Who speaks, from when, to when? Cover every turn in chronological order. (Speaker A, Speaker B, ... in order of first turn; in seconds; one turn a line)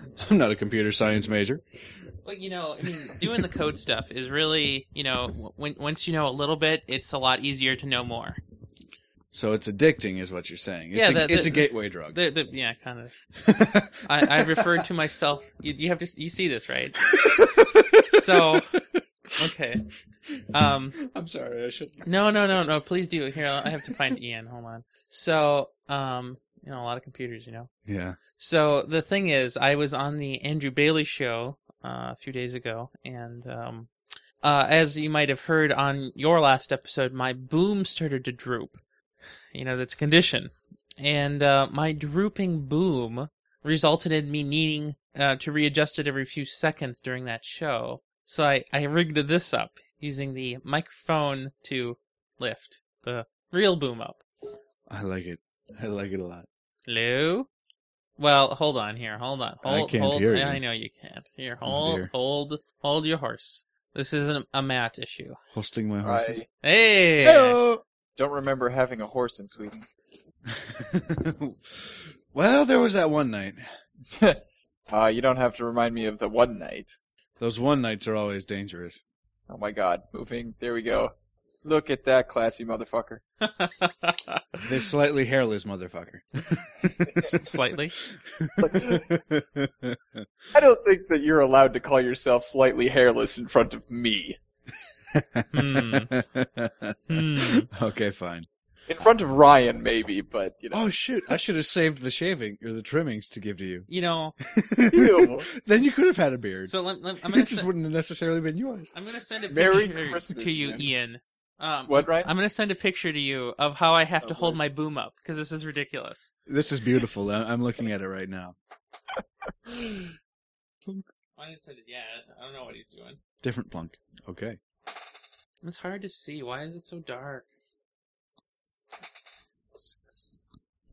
Speaker A: 0.2-1.6
Speaker B: 2.2-8.4
Speaker A: 9.3-12.2
Speaker B: 10.9-13.1
Speaker A: 13.4-14.8
Speaker B: 14.1-17.1
Speaker A: 17.1-19.0
Speaker B: 18.1-18.7
Speaker B: 19.4-19.9
Speaker B: 20.5-21.0
Speaker A: 21.0-22.1
Speaker B: 22.1-27.7
Speaker A: 23.6-23.9
Speaker A: 27.9-28.2
Speaker B: 28.4-33.9
Speaker B: 34.4-38.8
Speaker B: 39.5-54.2
Speaker A: 54.9-56.5
Speaker B: 56.9-57.5
Speaker B: 58.2-65.4
Speaker A: 59.6-60.6
Speaker A: 61.6-62.1
Speaker A: 65.5-66.4
Speaker C: 66.0-66.5
Speaker B: 66.6-67.6
Speaker A: 67.2-67.8
Speaker C: 68.2-69.9
Speaker A: 70.5-73.6
Speaker C: 74.2-77.0
Speaker A: 77.4-79.0
Speaker C: 79.5-81.1
Speaker C: 81.6-83.2
Speaker B: 83.6-84.6
Speaker A: 84.6-90.3
Speaker B: 87.3-88.0
Speaker C: 88.6-89.1
Speaker C: 90.5-94.4
Speaker A: 95.1-98.5
Speaker B: 95.5-96.1
Speaker B: 97.1-97.7
Speaker C: 98.9-100.9
Speaker A: 100.7-103.9
Speaker B: 103.9-104.4
Speaker A: 104.4-108.9
Speaker C: 104.9-105.5
Speaker B: 106.7-107.7
Speaker B: 108.9-116.3
Speaker C: 109.5-110.9
Speaker C: 111.9-112.3
Speaker C: 114.2-114.6
Speaker A: 116.5-118.6
Speaker B: 121.4-123.2
Speaker A: 123.4-124.6
Speaker B: 125.6-127.5
Speaker C: 129.8-130.4